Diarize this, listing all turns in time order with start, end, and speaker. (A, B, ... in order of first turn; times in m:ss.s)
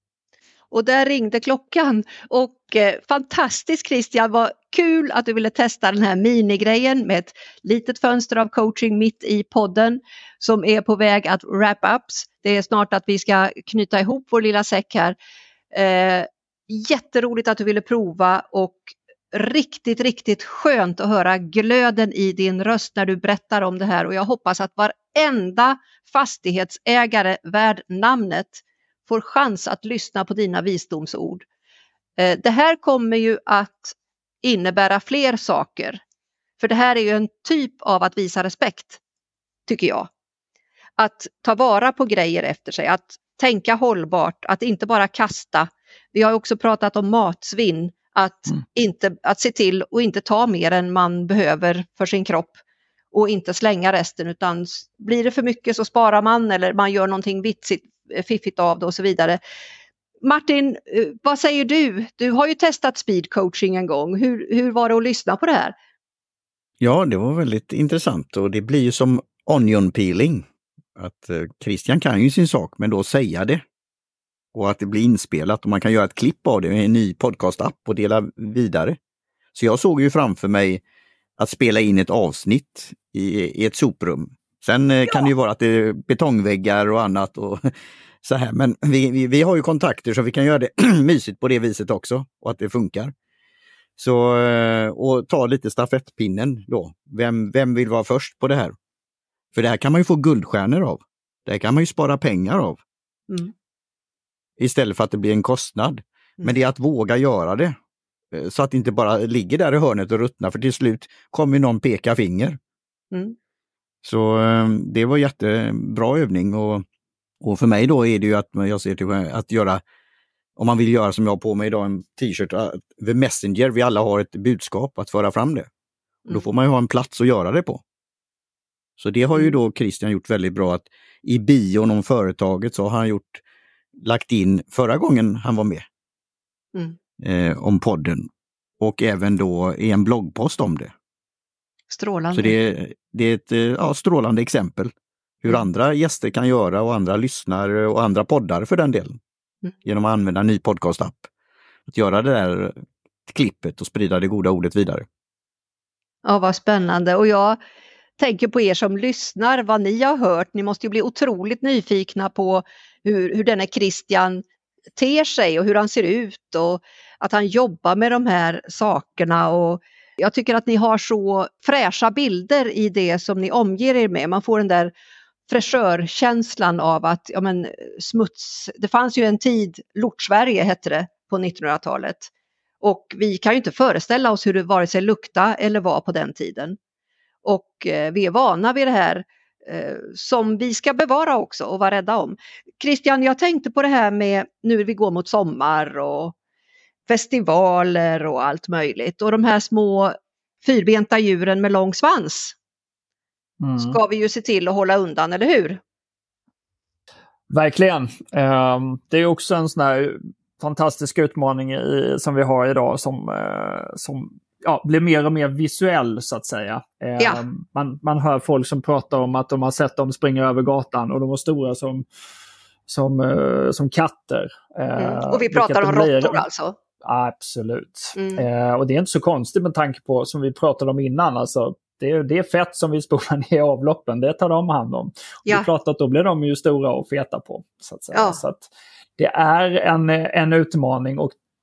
0:00.7-0:15.2 A
0:15.7-0:31.4 A
0:32.2-0:36.0 A
0:36.6-0:39.0 A
0:39.7-0:40.1 A
0:41.0-0:52.6 A
0:53.1-0:59.4 A
1:00.2-1:05.7 A
1:06.8-1:13.6 B
1:14.5-1:19.0 B
1:19.5-1:20.8 B
1:21.4-1:27.7 B
1:28.2-1:33.1 B
1:34.0-1:38.7 B
1:39.5-1:42.8 B
1:44.6-1:47.7 B
1:48.3-1:52.6 B
1:54.0-1:56.8 B
1:57.4-1:59.8 B
2:00.6-2:05.7 B
2:06.3-2:07.8 B
2:09.0-2:13.4 B
2:14.0-2:15.8 B
2:17.2-2:18.3 B
2:18.8-2:20.9 B
2:21.9-2:22.6 A
2:22.3-2:24.9 B
2:25.4-2:29.2 B
2:29.8-2:31.3 B
2:31.9-2:35.1 B
2:36.2-2:37.6 A
2:38.2-2:44.4 A
2:45.0-2:54.9 A
2:55.5-3:02.3 A
3:02.8-3:06.8 A
3:07.4-3:16.3 A
3:17.1-3:22.6 A
3:23.6-3:24.0 C
3:23.8-3:25.8 A
3:27.5-3:42.0 C
3:42.9-3:46.4 C
3:45.0-3:46.8 A
3:47.0-4:01.3 C
3:48.2-3:48.4 A
3:58.1-3:58.4 A